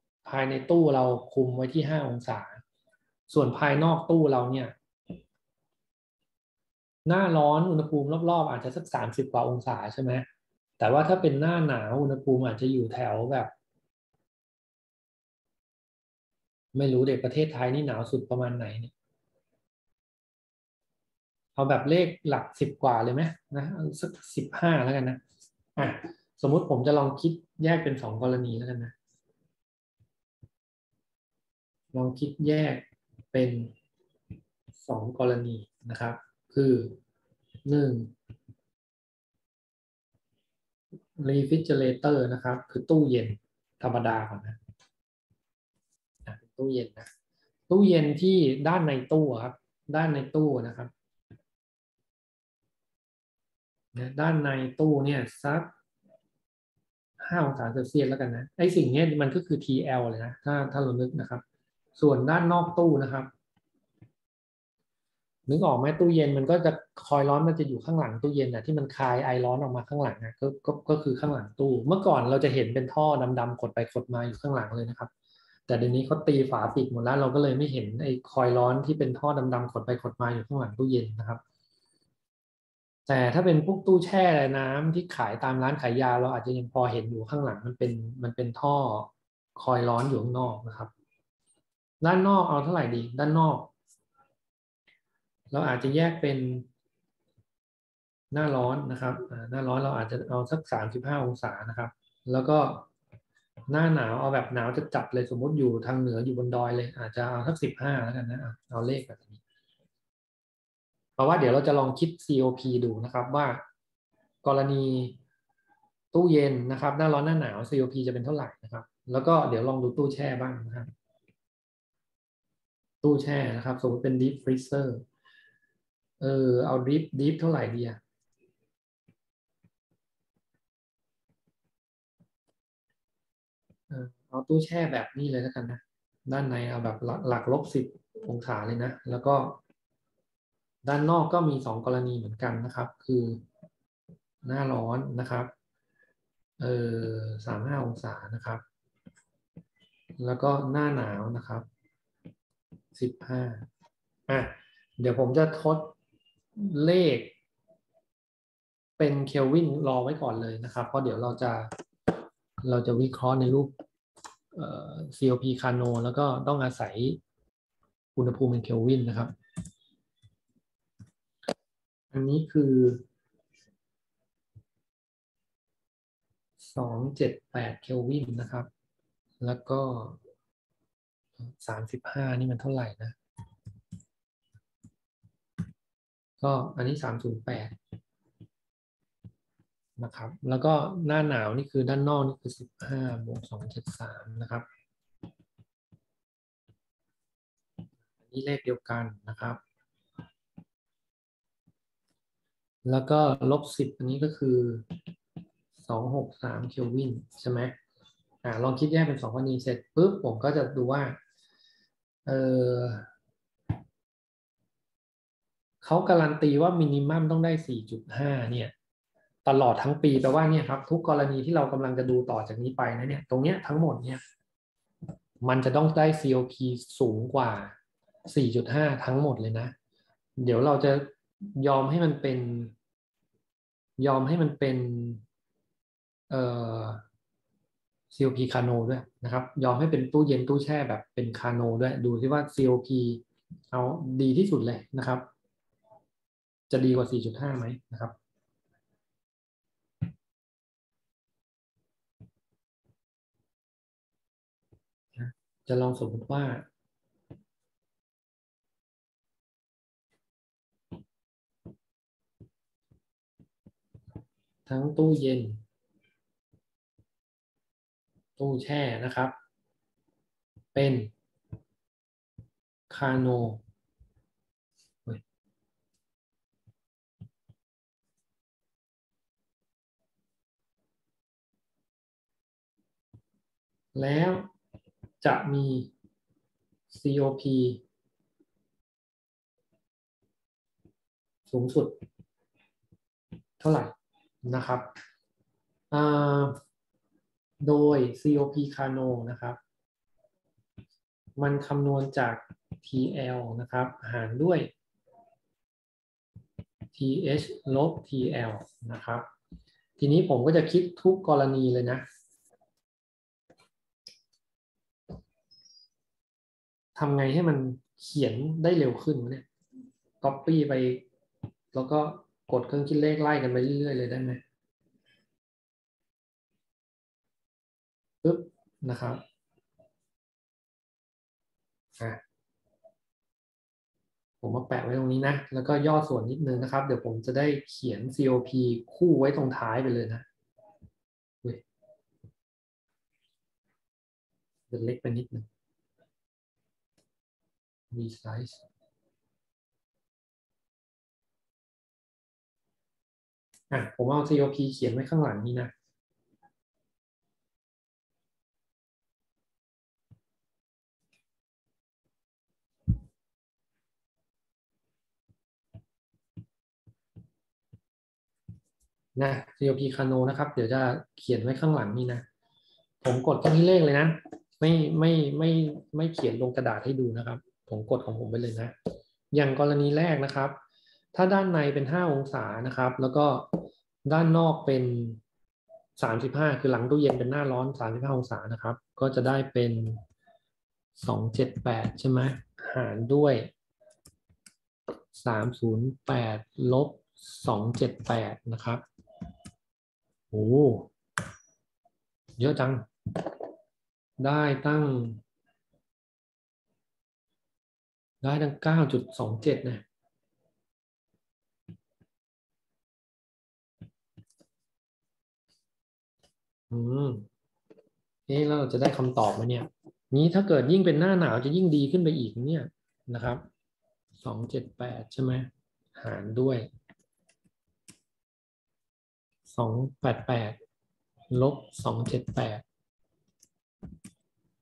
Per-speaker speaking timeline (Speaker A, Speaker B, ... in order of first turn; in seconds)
Speaker A: 0.2-2.6, 3.3-4.7, 7.1-10.3, 10.8-13.5, 16.7-18.9, 21.6-25.2, 25.8-28.9, 31.9-33.7, 34.8-37.0, 37.6-38.1, 41.2-44.6, 46.2-47.1, 47.7-50.9, 53.9-55.7, 57.2-61.4, 62.0-63.3, 65.5-75.1, 75.7-81.4, 83.1-90.9, 92.0-93.7, 95.5-96.7, 98.3-102.9, 103.7-109.4, 111.2-113.6, 114.4-115.2, 116.1-120.9, 123.0-125.0, 126.2-128.0, 133.9-139.6, 140.8-143.4, 144.4-145.5, 146.6-148.6, 150.2-151.7, 152.9-153.7, 154.3-156.0, 156.6-157.3, 159.0-161.7, 162.6-163.7, 164.5-167.2, 168.2-169.3, 172.1-173.1, 176.6-178.7, 179.4-180.2, 181.4-183.2, 186.4-187.8, 190.0-194.7, 198.3-199.6, 202.8-205.0, 205.8-207.8, 208.4-211.2, 212.3-213.1, 215.8-218.7, 219.4-224.2, 225.4-229.7, 230.4-232.7, 234.0-235.2, 236.3-237.0, 238.1-245.3, 246.7-248.1, 255.2-256.7, 264.7-265.6, 268.4-269.3, 270.7-271.1, 272.9-273.6, 283.9-284.5, 285.2-285.9, 286.9-287.8, 291.5-292.0, 293.6-293.9, 294.4-294.9, 295.9-296.6, 297.6-299.6, 301.4-304.7, 306.9-309.3, 310.0-312.0, 316.9-319.5, 320.2-321.1, 321.7-324.4, 328.2-329.2, 334.4-340.3, 344.7-345.5, 347.9-348.6, 353.7-355.7, 369.2-372.2, 373.0-378.7, 379.3-380.6, 381.1-385.2, 386.0-390.0, 391.0-393.5, 395.1-398.8, 400.3-400.9, 402.4-403.3, 404.2-405.2, 408.2-409.8, 416.7-417.3, 418.3-423.4, 424.2-426.7, 429.5-430.6, 431.3-432.6